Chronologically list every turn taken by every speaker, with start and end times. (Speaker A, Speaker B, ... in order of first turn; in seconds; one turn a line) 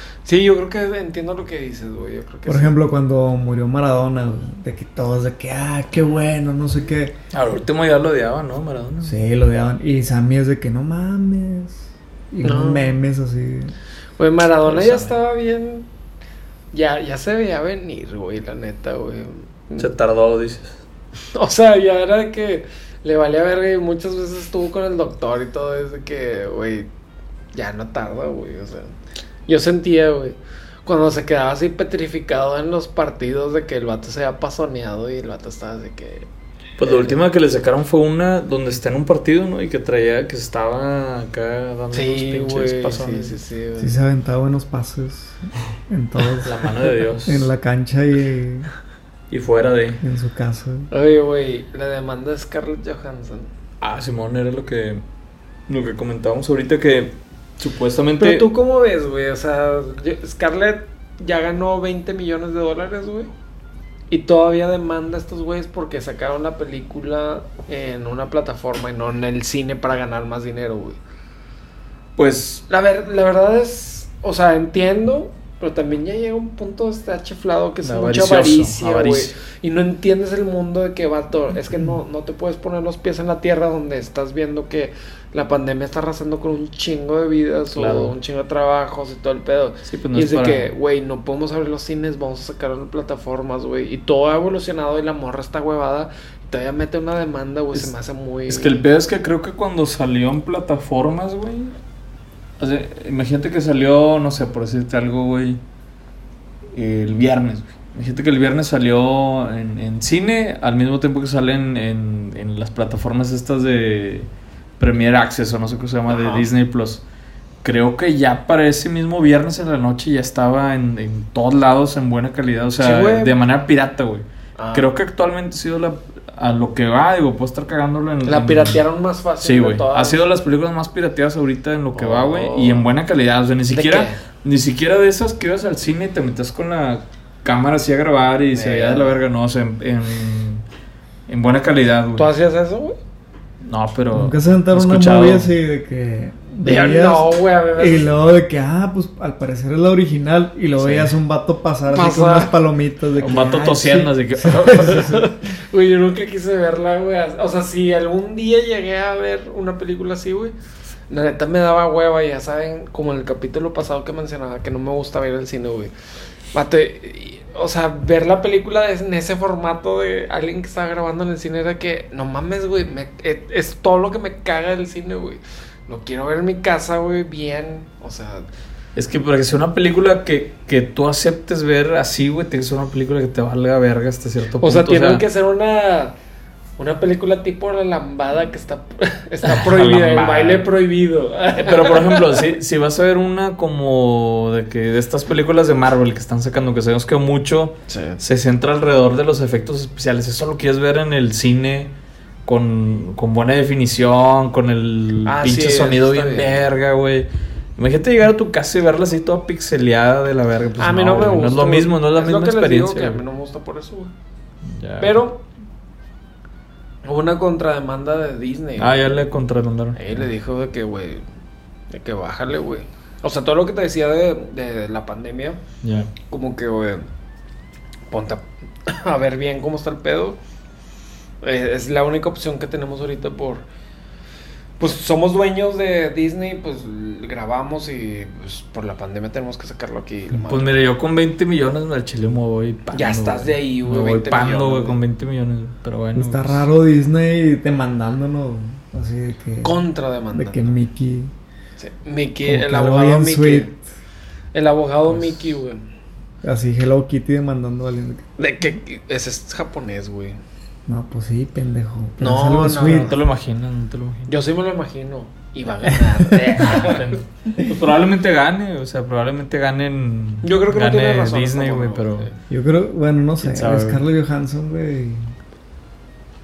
Speaker A: 0.2-2.8
Speaker B: 2.5-7.2
Speaker C: 7.3-9.2
Speaker B: 9.0-13.7
Speaker A: 12.4-12.9
Speaker A: 14.2-15.8
Speaker C: 14.6-15.2
Speaker A: 16.7-19.9
Speaker C: 19.8-20.8
Speaker A: 21.3-26.9
Speaker A: 27.5-28.9
Speaker A: 29.5-36.3
Speaker C: 36.8-43.4
Speaker A: 36.8-37.2
Speaker A: 41.9-44.0
Speaker B: 43.8-46.7
Speaker C: 46.4-47.5
Speaker B: 47.2-48.7
Speaker C: 49.3-50.0
Speaker B: 50.0-50.9
Speaker A: 50.9-53.5
Speaker C: 53.8-55.0
Speaker C: 55.7-58.5
Speaker A: 58.2-63.3
Speaker A: 64.1-71.0
Speaker C: 72.2-72.6
Speaker A: 72.7-98.8
Speaker C: 77.8-79.4
Speaker C: 87.8-88.1
Speaker C: 89.8-90.7
Speaker C: 98.5-101.7
Speaker C: 102.6-105.6
Speaker C: 106.7-117.0
Speaker A: 116.1-116.5
Speaker C: 117.6-128.8
Speaker A: 122.8-123.3
Speaker A: 124.6-124.9
Speaker A: 128.2-130.2
Speaker C: 129.4-140.6
Speaker A: 131.9-132.8
Speaker A: 133.7-134.2
Speaker A: 138.5-139.2
Speaker C: 141.3-142.3
Speaker A: 142.2-143.0
Speaker C: 143.6-145.5
Speaker B: 144.1-155.3
Speaker A: 146.6-148.1
Speaker C: 150.8-151.1
Speaker A: 151.9-152.5
Speaker C: 153.2-155.2
Speaker A: 155.2-160.5
Speaker A: 161.1-165.9
Speaker A: 166.5-178.5
Speaker C: 178.9-185.2
Speaker A: 184.6-186.1
Speaker A: 186.8-192.4
Speaker C: 189.4-190.7
Speaker C: 191.6-201.9
Speaker A: 197.9-198.2
Speaker C: 202.4-213.2
Speaker A: 205.2-206.6
Speaker A: 210.8-214.1
Speaker C: 214.7-215.2
Speaker A: 215.0-215.4
Speaker A: 217.0-219.2
Speaker C: 218.8-220.2
Speaker A: 219.9-221.2
Speaker A: 221.9-225.6
Speaker C: 225.8-226.1
Speaker A: 226.3-227.1
Speaker A: 228.1-230.4
Speaker A: 231.4-233.6
Speaker A: 234.8-240.8
Speaker C: 240.3-246.7
Speaker A: 242.9-245.0
Speaker B: 246.1-249.8
Speaker A: 249.6-250.8
Speaker B: 250.3-251.3
Speaker A: 251.8-253.7
Speaker B: 252.4-253.7
Speaker A: 254.5-255.8
Speaker C: 255.1-255.5
Speaker B: 256.4-258.2
Speaker A: 258.4-260.4
Speaker B: 260.9-263.2
Speaker A: 262.2-263.1
Speaker C: 262.8-264.3
Speaker A: 264.3-267.2
Speaker C: 266.5-272.3
Speaker A: 270.4-272.3
Speaker B: 272.5-275.3
Speaker C: 273.4-274.0